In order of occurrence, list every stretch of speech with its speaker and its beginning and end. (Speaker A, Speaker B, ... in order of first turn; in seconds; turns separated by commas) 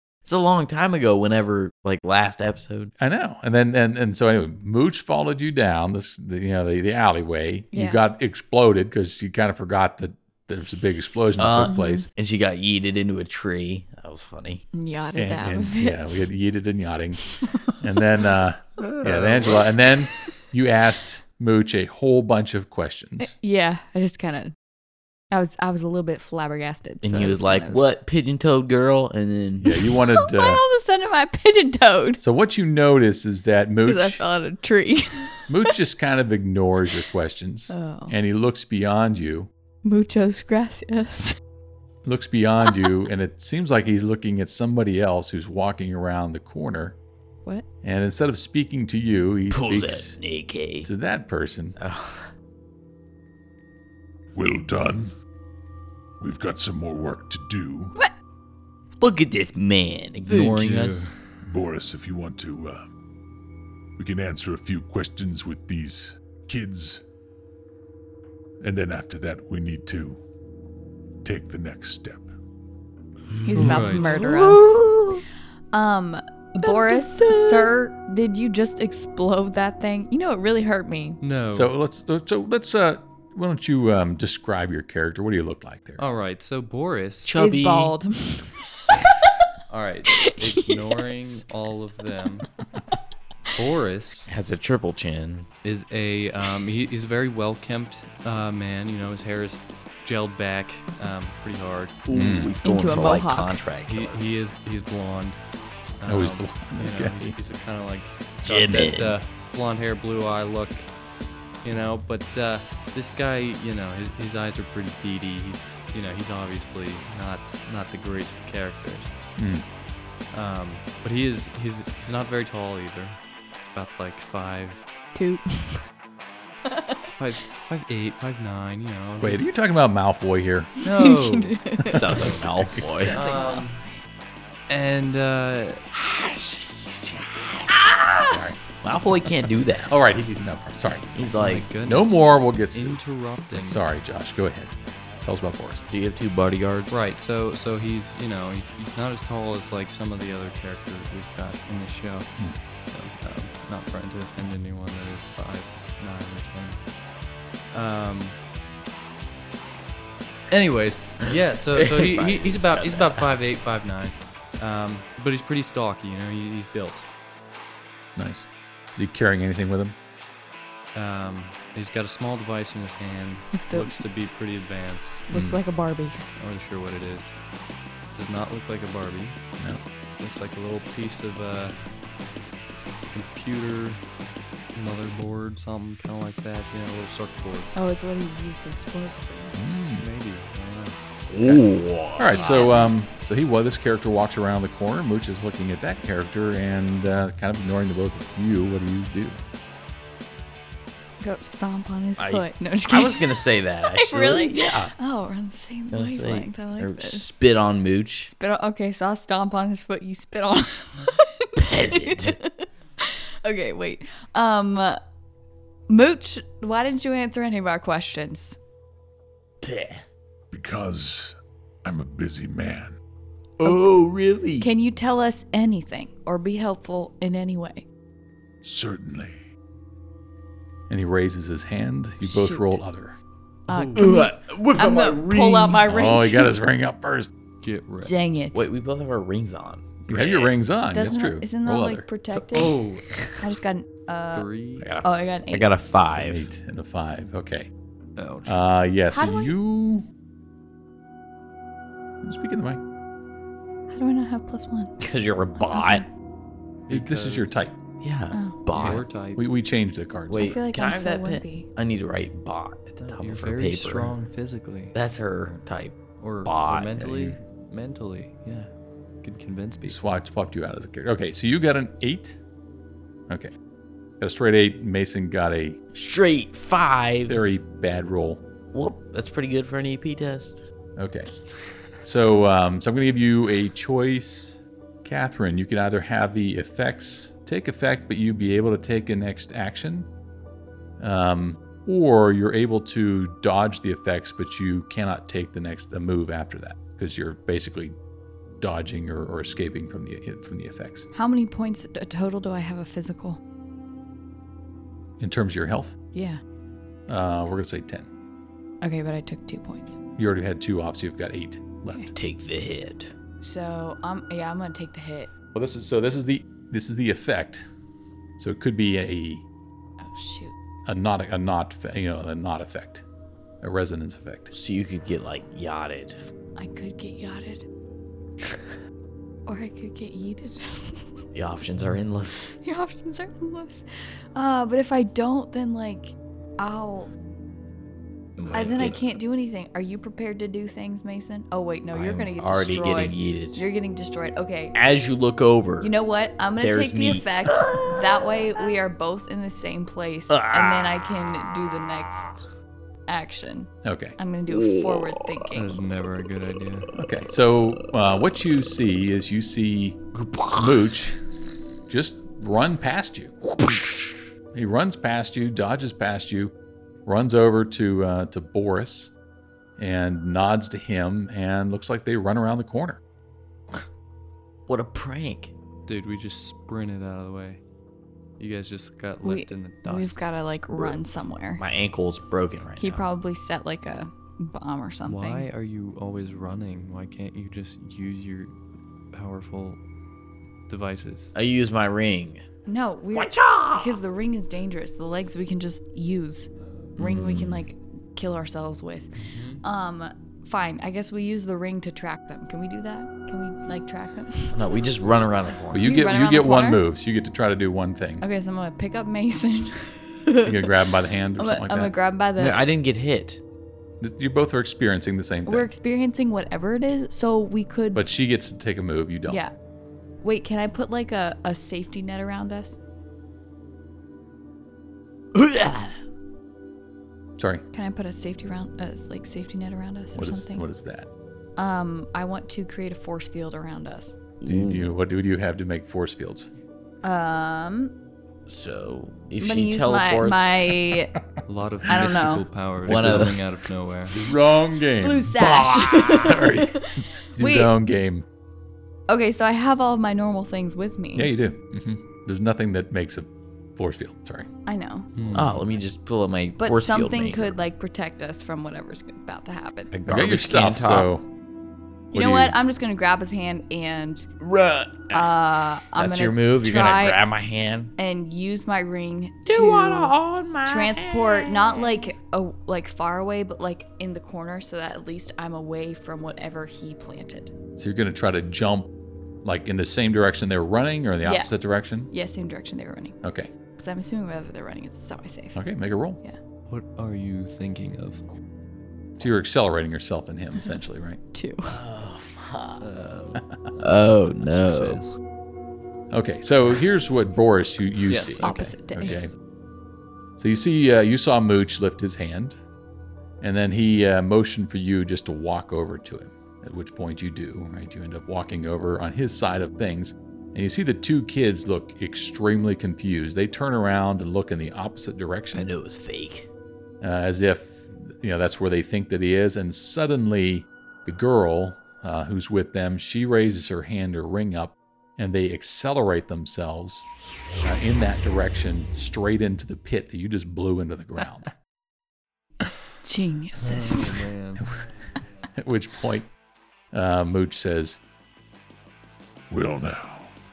Speaker A: 0.2-2.9, Speaker B: 3.0-12.1, Speaker C: 7.7-8.0, Speaker A: 11.4-14.7, Speaker C: 11.6-12.1, Speaker C: 14.7-16.0, Speaker B: 15.2-23.3, Speaker A: 19.0-19.7, Speaker C: 23.2-24.5, Speaker C: 25.3-27.8, Speaker A: 27.0-29.7, Speaker B: 29.6-30.6, Speaker C: 29.6-32.2, Speaker B: 32.2-34.2, Speaker C: 33.9-35.7, Speaker B: 35.5-39.5, Speaker C: 37.7-38.2, Speaker C: 39.8-41.4, Speaker B: 42.0-47.0, Speaker B: 47.8-50.2, Speaker A: 49.5-50.9, Speaker B: 50.8-51.8, Speaker A: 51.8-52.3, Speaker D: 54.3-55.1, Speaker D: 56.2-58.0, Speaker A: 59.0-61.1, Speaker E: 60.2-61.2, Speaker D: 61.4-62.9, Speaker D: 64.0-67.0, Speaker D: 68.6-70.2, Speaker D: 71.2-72.3, Speaker A: 73.3-75.2, Speaker C: 73.5-74.9, Speaker E: 73.5-74.1, Speaker C: 75.7-81.2, Speaker A: 76.6-77.7, Speaker E: 81.2-81.7, Speaker B: 81.5-86.0, Speaker E: 86.0-87.3, Speaker A: 87.3-88.0, Speaker C: 87.4-89.3, Speaker E: 89.7-92.5, Speaker C: 90.2-91.0, Speaker E: 93.5-94.3, Speaker A: 94.3-95.5, Speaker E: 95.6-102.0, Speaker A: 102.1-104.2, Speaker B: 102.1-102.6, Speaker C: 102.7-103.6, Speaker E: 103.9-105.4, Speaker E: 106.0-110.9, Speaker B: 106.1-107.4, Speaker A: 108.4-109.1, Speaker E: 111.6-119.1, Speaker B: 119.4-119.7, Speaker E: 120.3-124.9, Speaker C: 125.2-125.8, Speaker C: 126.7-127.1, Speaker E: 127.2-129.4, Speaker B: 129.2-130.7, Speaker E: 130.8-131.8, Speaker C: 130.9-132.0, Speaker A: 131.9-133.2, Speaker B: 131.9-132.9, Speaker E: 133.1-133.8, Speaker C: 133.1-134.0, Speaker E: 134.7-135.8, Speaker B: 135.9-138.6, Speaker A: 137.7-139.9, Speaker B: 139.9-145.9, Speaker A: 141.2-141.7, Speaker E: 141.3-143.8, Speaker A: 145.9-147.0, Speaker E: 146.9-152.3, Speaker E: 152.9-156.8, Speaker E: 157.7-158.4, Speaker E: 160.5-167.1, Speaker A: 161.8-163.4, Speaker B: 168.2-170.0, Speaker E: 170.9-175.3, Speaker C: 173.5-174.1, Speaker C: 175.3-176.2, Speaker B: 175.3-175.6, Speaker E: 176.4-177.3, Speaker E: 178.1-179.4, Speaker E: 180.2-181.8, Speaker E: 183.1-184.0, Speaker E: 184.7-187.7, Speaker C: 187.8-189.6, Speaker B: 189.6-190.1, Speaker E: 190.0-191.0, Speaker A: 191.3-192.7, Speaker B: 191.4-199.4, Speaker C: 192.3-192.9, Speaker C: 201.2-207.3, Speaker A: 202.2-204.9, Speaker A: 205.9-208.3, Speaker C: 208.3-215.0, Speaker A: 211.6-212.4, Speaker C: 215.9-218.6, Speaker A: 219.6-220.1, Speaker D: 220.5-223.0, Speaker A: 223.6-224.7, Speaker C: 224.6-227.9, Speaker D: 228.6-229.4, Speaker B: 230.9-233.2, Speaker C: 232.2-232.8, Speaker E: 233.7-234.0, Speaker C: 233.7-236.6, Speaker A: 234.0-235.9, Speaker B: 235.9-237.3, Speaker E: 237.6-238.1, Speaker C: 238.0-238.7, Speaker A: 238.5-240.5, Speaker B: 240.1-242.1, Speaker C: 240.9-242.8, Speaker A: 242.3-243.3, Speaker E: 242.5-243.2, Speaker C: 243.4-244.5, Speaker E: 244.3-244.9, Speaker A: 244.8-246.5, Speaker C: 245.0-245.7, Speaker B: 246.1-247.7, Speaker E: 248.2-248.6, Speaker B: 248.5-250.1, Speaker C: 249.1-249.5, Speaker B: 252.2-252.8, Speaker C: 253.9-254.9, Speaker A: 255.0-256.1, Speaker C: 255.6-256.1, Speaker E: 256.9-257.5, Speaker B: 256.9-257.8, Speaker A: 258.0-259.0, Speaker C: 258.3-258.6, Speaker E: 258.8-259.4, Speaker B: 258.8-260.6, Speaker A: 260.3-264.2, Speaker C: 260.3-261.7, Speaker E: 263.0-264.9, Speaker A: 264.9-267.2, Speaker E: 266.2-268.7, Speaker B: 267.1-267.4, Speaker E: 269.2-270.0, Speaker B: 269.9-272.4, Speaker B: 274.2-275.8, Speaker A: 275.9-277.4, Speaker B: 277.3-278.4, Speaker A: 278.7-280.7, Speaker B: 281.0-281.3, Speaker B: 282.0-290.1, Speaker B: 291.0-298.0, Speaker B: 298.6-301.1, Speaker C: 301.1-303.4, Speaker B: 305.2-305.9, Speaker C: 306.1-306.4, Speaker B: 307.1-308.1, Speaker C: 308.8-310.0, Speaker B: 310.2-312.1, Speaker A: 312.1-313.1, Speaker C: 313.4-315.3, Speaker B: 315.5-317.6, Speaker B: 318.4-319.5, Speaker C: 320.0-320.5, Speaker B: 320.9-323.1, Speaker B: 323.6-324.5, Speaker A: 324.5-326.2, Speaker C: 326.6-327.7, Speaker C: 329.5-331.0, Speaker A: 331.3-332.5, Speaker C: 332.5-337.1, Speaker A: 338.4-339.1, Speaker C: 338.5-344.8, Speaker A: 341.9-343.7, Speaker A: 344.8-345.9, Speaker C: 345.8-352.4, Speaker A: 346.6-348.0, Speaker A: 350.3-351.0, Speaker C: 353.1-355.8, Speaker B: 353.8-354.2, Speaker A: 354.5-355.2, Speaker E: 355.6-356.9, Speaker B: 356.9-360.0, Speaker A: 360.2-360.7, Speaker B: 360.6-361.2, Speaker B: 361.9-363.4, Speaker A: 363.6-364.2, Speaker B: 364.5-366.5, Speaker B: 367.1-369.1, Speaker B: 369.8-373.0, Speaker A: 374.7-375.5, Speaker E: 375.9-377.6, Speaker E: 378.4-380.2, Speaker C: 379.2-381.6, Speaker A: 381.6-383.1, Speaker C: 382.8-385.5, Speaker E: 385.1-388.6, Speaker E: 389.1-389.8, Speaker E: 390.7-391.3, Speaker A: 391.3-392.4, Speaker C: 392.7-404.6, Speaker A: 393.1-394.0, Speaker A: 397.0-397.6, Speaker E: 399.2-399.6, Speaker A: 404.5-405.9, Speaker B: 405.7-408.2, Speaker C: 405.8-406.8, Speaker C: 408.2-410.8, Speaker B: 410.4-411.9, Speaker C: 411.4-412.7, Speaker A: 412.4-413.4, Speaker B: 414.0-415.7, Speaker C: 415.5-418.1, Speaker B: 417.9-419.4, Speaker C: 419.3-419.5, Speaker C: 420.2-422.8, Speaker A: 425.3-426.0, Speaker B: 427.4-427.6, Speaker C: 427.7-430.7, Speaker B: 430.1-431.1, Speaker C: 431.6-434.2, Speaker A: 434.4-434.9, Speaker B: 434.4-436.5, Speaker C: 437.0-437.9, Speaker A: 438.5-440.8, Speaker C: 439.4-441.1, Speaker E: 441.5-444.2, Speaker C: 441.9-442.4, Speaker B: 442.9-443.4, Speaker A: 442.9-443.4, Speaker B: 444.1-448.2, Speaker C: 445.0-447.7, Speaker A: 445.4-446.4, Speaker C: 449.1-451.3, Speaker B: 451.1-454.5, Speaker C: 454.7-455.1, Speaker E: 455.2-455.6, Speaker B: 455.3-455.6, Speaker A: 455.3-457.6, Speaker C: 456.6-459.9, Speaker A: 459.9-461.1, Speaker B: 460.1-461.3, Speaker C: 462.1-464.3, Speaker B: 462.1-462.6, Speaker A: 464.4-465.3, Speaker C: 465.1-467.2, Speaker A: 466.0-467.9, Speaker C: 468.0-470.1, Speaker A: 469.5-472.1, Speaker C: 470.6-477.5, Speaker B: 477.8-478.9, Speaker B: 479.4-482.1, Speaker C: 481.2-481.5, Speaker C: 482.1-483.2, Speaker B: 483.2-483.5, Speaker C: 483.8-485.6, Speaker B: 485.6-486.2, Speaker E: 486.7-488.2, Speaker B: 489.2-491.2, Speaker C: 491.3-491.8, Speaker A: 491.7-492.9, Speaker E: 492.8-495.2, Speaker B: 493.4-493.7, Speaker A: 493.8-495.0, Speaker B: 496.1-499.3, Speaker E: 498.0-498.8, Speaker C: 498.4-499.2, Speaker B: 500.4-502.6, Speaker B: 503.4-515.7, Speaker A: 515.5-516.5, Speaker B: 517.0-527.1, Speaker B: 527.6-531.5, Speaker C: 533.0-534.3, Speaker E: 533.6-534.6, Speaker B: 534.6-534.9, Speaker B: 535.5-536.3, Speaker B: 536.9-538.0, Speaker D: 539.5-540.3